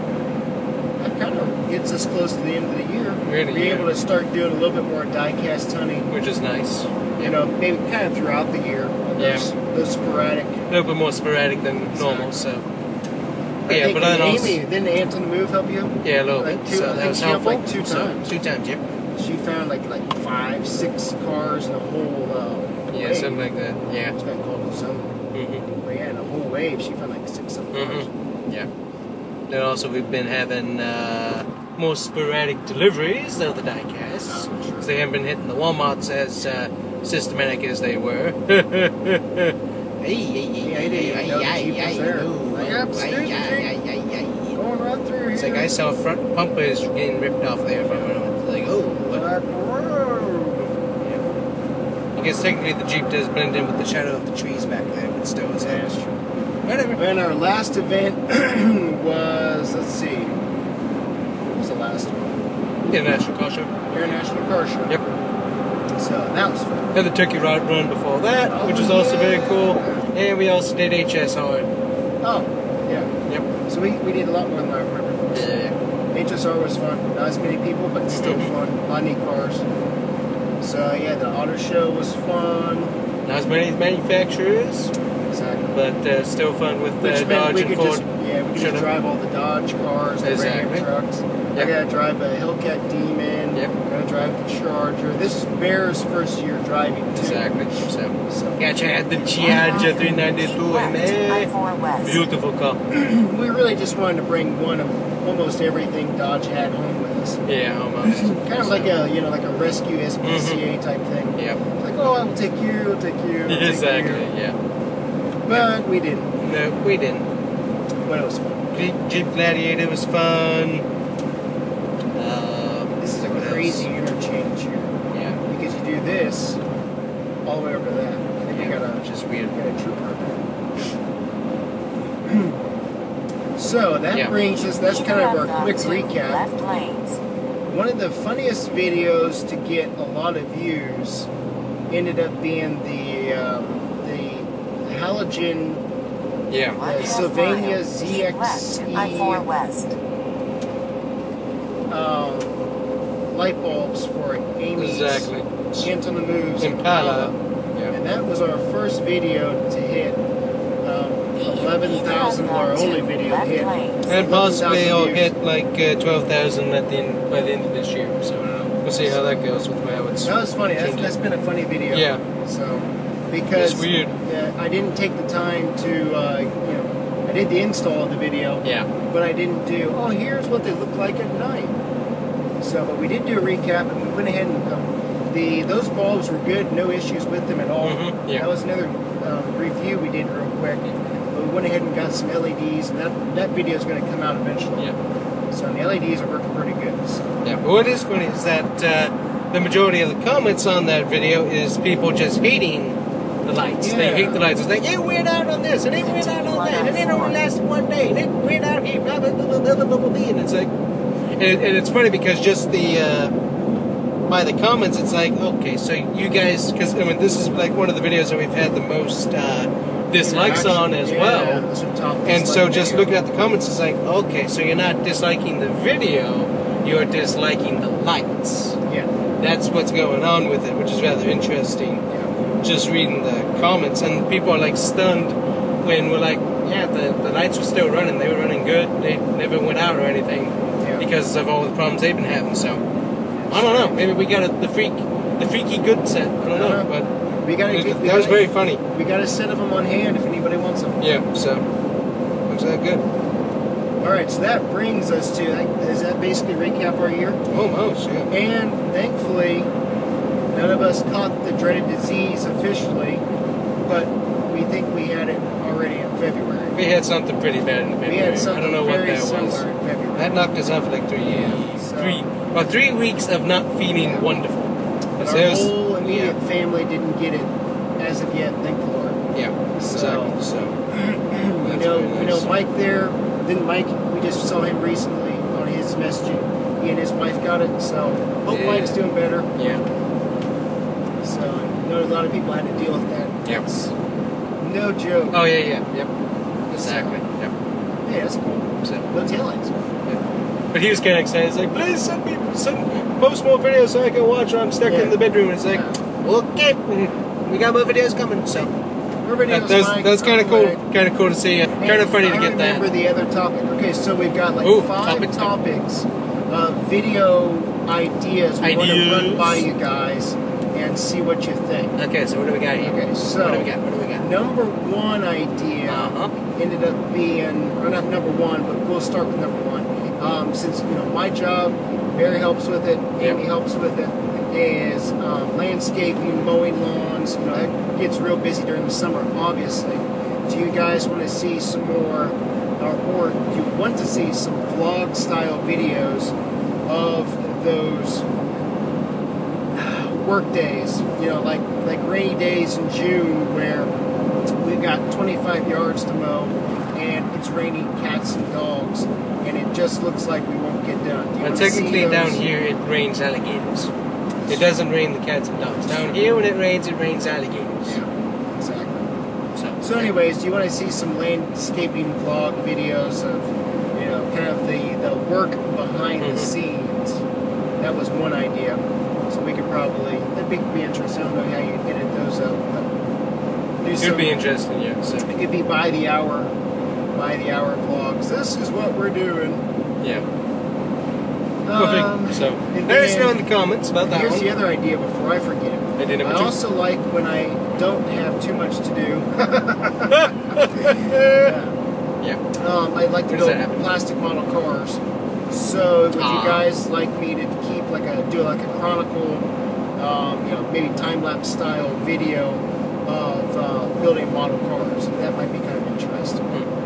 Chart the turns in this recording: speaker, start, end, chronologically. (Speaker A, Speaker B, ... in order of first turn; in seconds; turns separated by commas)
Speaker A: 1.0-6.2, Speaker B: 3.2-3.9, Speaker B: 6.1-7.3, Speaker A: 7.2-10.6, Speaker B: 9.2-9.5, Speaker B: 10.7-12.7, Speaker A: 11.9-12.4, Speaker A: 13.7-18.3, Speaker B: 13.7-14.6, Speaker B: 16.0-18.8, Speaker A: 19.2-23.5, Speaker B: 22.9-24.1, Speaker A: 24.1-25.1, Speaker B: 25.3-25.6, Speaker A: 25.8-28.1, Speaker B: 27.7-28.7, Speaker B: 29.5-44.6, Speaker A: 34.3-34.9, Speaker A: 40.6-43.7, Speaker A: 44.5-45.8, Speaker B: 45.4-49.2, Speaker A: 49.0-50.7, Speaker B: 52.1-55.8, Speaker A: 55.6-56.2, Speaker B: 56.6-57.0, Speaker A: 57.0-60.4, Speaker A: 61.5-62.4, Speaker B: 62.9-64.0, Speaker A: 63.9-65.0, Speaker A: 66.0-66.9, Speaker B: 66.9-71.7, Speaker A: 68.5-70.0, Speaker A: 72.2-73.1, Speaker A: 73.7-75.5, Speaker B: 75.3-75.8, Speaker A: 76.1-79.7, Speaker B: 78.1-78.5, Speaker A: 80.6-83.0, Speaker B: 83.2-84.9, Speaker A: 85.3-85.8, Speaker B: 85.7-88.0, Speaker A: 87.0-97.5, Speaker B: 88.6-88.9, Speaker B: 90.2-90.9, Speaker B: 97.1-101.5, Speaker A: 98.3-98.7, Speaker C: 99.3-102.3, Speaker B: 102.0-102.8, Speaker A: 102.9-107.4, Speaker B: 107.5-109.0, Speaker A: 108.0-114.3, Speaker B: 110.2-110.6, Speaker B: 113.5-114.6, Speaker A: 115.5-116.4, Speaker B: 116.4-117.3, Speaker A: 118.0-118.8, Speaker B: 118.7-120.9, Speaker B: 122.2-123.9, Speaker A: 123.0-126.6, Speaker B: 125.1-125.4, Speaker A: 127.5-130.5, Speaker B: 128.5-129.6, Speaker A: 132.2-132.6, Speaker A: 133.6-136.4, Speaker C: 134.6-137.2, Speaker A: 137.7-141.3, Speaker A: 141.9-145.8, Speaker B: 146.5-146.8, Speaker C: 146.8-150.0, Speaker A: 146.8-149.5, Speaker A: 151.9-152.6, Speaker A: 153.3-157.4, Speaker B: 154.8-155.9, Speaker B: 156.6-157.9, Speaker A: 157.9-160.2, Speaker A: 160.8-165.3, Speaker C: 161.4-164.2, Speaker B: 164.1-171.1, Speaker A: 168.4-169.6, Speaker A: 170.2-181.8, Speaker B: 171.9-172.2, Speaker B: 173.6-174.2, Speaker B: 178.6-178.9, Speaker A: 182.6-194.9, Speaker B: 187.8-188.5, Speaker A: 195.5-197.2, Speaker B: 197.4-210.7, Speaker A: 203.8-204.4, Speaker C: 205.9-207.4, Speaker B: 211.3-213.3, Speaker B: 214.3-221.7, Speaker A: 220.2-223.1, Speaker B: 222.3-228.8, Speaker A: 228.8-229.1, Speaker B: 229.4-232.0, Speaker B: 232.6-242.8, Speaker A: 240.8-241.1, Speaker A: 243.4-244.1, Speaker B: 243.5-247.1, Speaker A: 246.5-246.9, Speaker A: 247.4-251.1, Speaker B: 247.7-248.8, Speaker B: 251.0-251.7, Speaker B: 252.5-253.0, Speaker A: 254.0-257.5, Speaker B: 257.5-258.3, Speaker A: 258.3-259.7, Speaker A: 260.5-263.2, Speaker A: 263.8-266.8, Speaker B: 266.8-269.6, Speaker A: 268.1-270.5, Speaker B: 270.2-276.4, Speaker A: 271.2-272.3, Speaker A: 274.0-274.3, Speaker A: 275.2-289.8, Speaker B: 279.3-280.8, Speaker B: 281.6-282.6, Speaker B: 288.5-289.0, Speaker B: 289.6-289.8, Speaker A: 291.2-293.9, Speaker A: 294.6-295.4, Speaker B: 295.3-296.1, Speaker A: 296.7-297.2, Speaker B: 296.8-297.5, Speaker A: 298.1-299.9, Speaker B: 298.8-299.1, Speaker B: 300.7-308.7, Speaker A: 304.9-306.0, Speaker A: 309.2-310.8, Speaker B: 309.5-312.9, Speaker A: 311.8-321.9, Speaker B: 314.6-315.5, Speaker B: 318.6-319.6, Speaker B: 322.0-324.3, Speaker A: 322.8-346.3, Speaker B: 325.9-326.3, Speaker A: 346.9-348.3, Speaker A: 349.7-353.9, Speaker A: 354.6-362.4, Speaker B: 361.4-363.9, Speaker B: 364.5-368.0, Speaker A: 367.9-369.1, Speaker B: 369.6-370.1, Speaker A: 369.8-377.2, Speaker B: 376.2-376.5, Speaker A: 377.8-382.9, Speaker A: 383.8-384.4, Speaker B: 384.0-385.3, Speaker A: 385.3-386.6, Speaker A: 387.1-389.6, Speaker B: 390.0-390.3, Speaker A: 391.6-393.4, Speaker B: 391.8-394.5, Speaker A: 394.0-401.7, Speaker B: 396.0-396.6, Speaker B: 400.1-401.6, Speaker A: 402.6-416.5, Speaker B: 403.3-403.9, Speaker B: 406.2-406.7